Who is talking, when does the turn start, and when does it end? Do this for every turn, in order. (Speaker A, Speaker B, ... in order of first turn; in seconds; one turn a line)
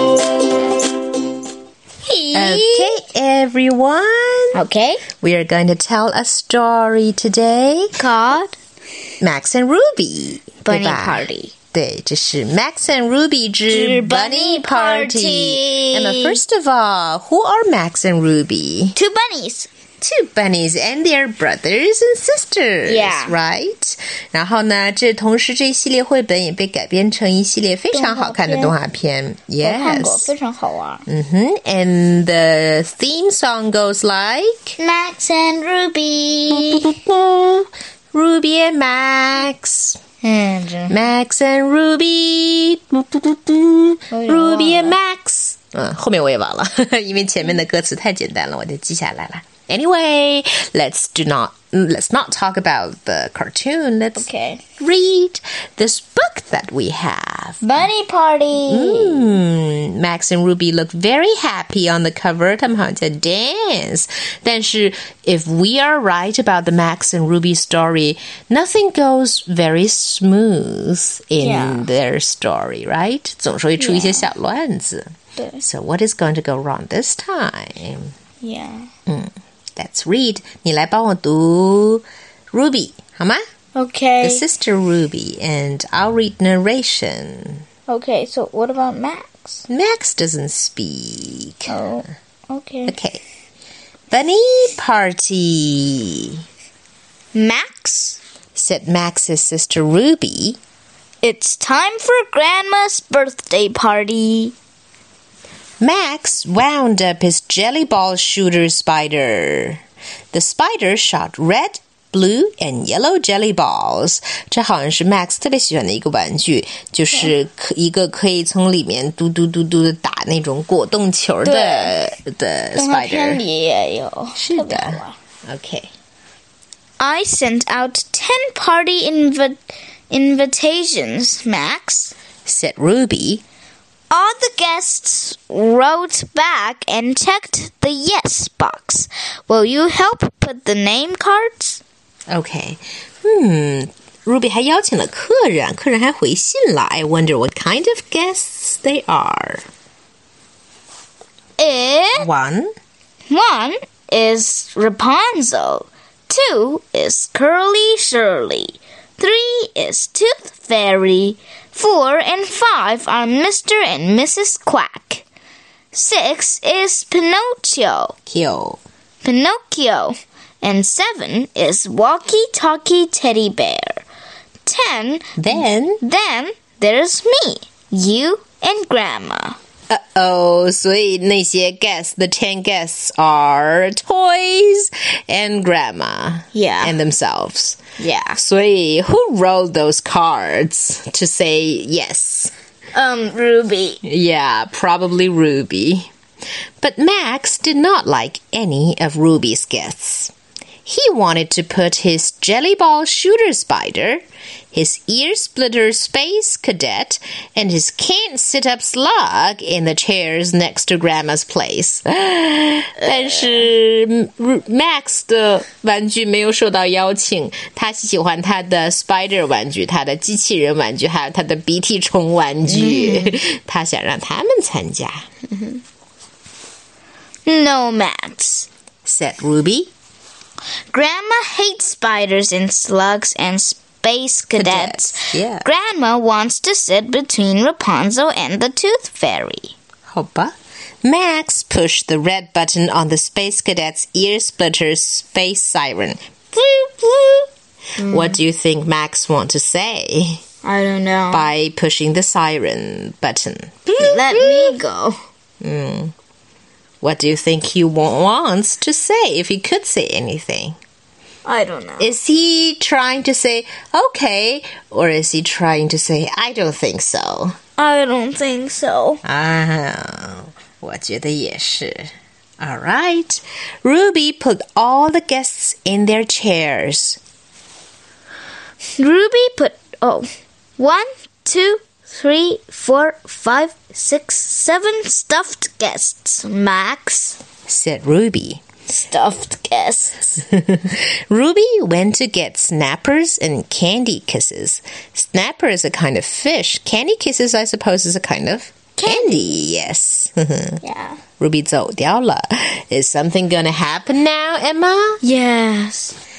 Speaker A: 2.0-3.0
Speaker B: 2.3-4.6
Speaker A: 4.5-5.0
Speaker B: 5.2-8.0
Speaker A: 8.0-8.6
Speaker B: 9.2-18.9
Speaker A: 10.6-11.5
Speaker A: 13.7-16.4
Speaker A: 18.9-19.7
Speaker B: 20.0-30.3
Speaker A: 22.9-23.4
Speaker A: 27.9-28.7
Speaker A: 29.6-31.0
Speaker B: 31.1-34.8
Speaker A: 34.8-36.9
Speaker B: 36.7-40.0
Speaker A: 40.2-40.9
Speaker B: 40.9-54.3
Speaker A: 44.1-45.0
Speaker A: 54.1-54.6
Speaker B: 54.8-57.8
Speaker A: 57.6-59.4
Speaker B: 58.5-75.1
Speaker A: 71.4-71.9
Speaker A: 73.8-74.3
Speaker A: 75.4-75.6
Speaker B: 75.6-78.1
Speaker A: 78.4-78.9
Speaker B: 79.1-83.4
Speaker A: 83.7-84.4
Speaker B: 84.2-87.6
Speaker A: 87.9-89.6
Speaker B: 89.7-91.7
Speaker A: 91.7-92.9
Speaker B: 92.8-93.2
Speaker B: 94.1-96.4
Speaker A: 97.3-98.2
Speaker B: 98.5-100.6
Speaker A: 101.2-104.5
Speaker B: 105.8-109.8
Speaker B: 110.3-123.4
Speaker A: 121.4-121.9
Speaker A: 122.8-125.1
Speaker B: 124.3-125.9
Speaker A: 127.0-132.1
Speaker B: 132.4-133.4
Speaker A: 134.1-141.8
Speaker B: 142.3-149.6
Speaker A: 151.6-152.3
Speaker B: 152.2-152.7
Speaker A: 153.3-165.2
Speaker A: 165.9-168.1
Speaker B: 168.2-168.8
Speaker A: 169.2-174.0
Speaker A: 174.6-179.6
Speaker B: 175.4-176.0
Speaker B: 179.9-187.8
Speaker A: 186.5-187.0
Speaker A: 188.0-188.4
Speaker B: 188.3-192.5
Speaker A: 192.9-194.0
Speaker B: 194.0-196.1
Speaker B: 196.8-200.3
Speaker B: 200.8-225.2
Speaker A: 222.7-223.4
Speaker A: 227.4-228.7
Speaker B: 229.0-229.9
Speaker A: 230.9-239.7
Speaker B: 234.6-235.7
Speaker B: 240.1-247.5
Speaker A: 248.0-248.4
Speaker B: 248.0-250.4
Speaker A: 250.6-251.5
Speaker B: 251.3-254.8
Speaker A: 254.0-255.2
Speaker B: 255.6-256.1
Speaker B: 257.0-260.8
Speaker A: 261.4-262.1
Speaker B: 262.0-267.5
Speaker A: 267.8-269.2
Speaker B: 269.2-277.2
Speaker A: 279.0-287.4
Speaker B: 287.7-288.6
Speaker A: 288.9-290.4
Speaker B: 290.5-300.8
Speaker A: 298.9-299.6
Speaker A: 300.8-301.2
Speaker B: 301.4-305.2
Speaker A: 305.2-306.2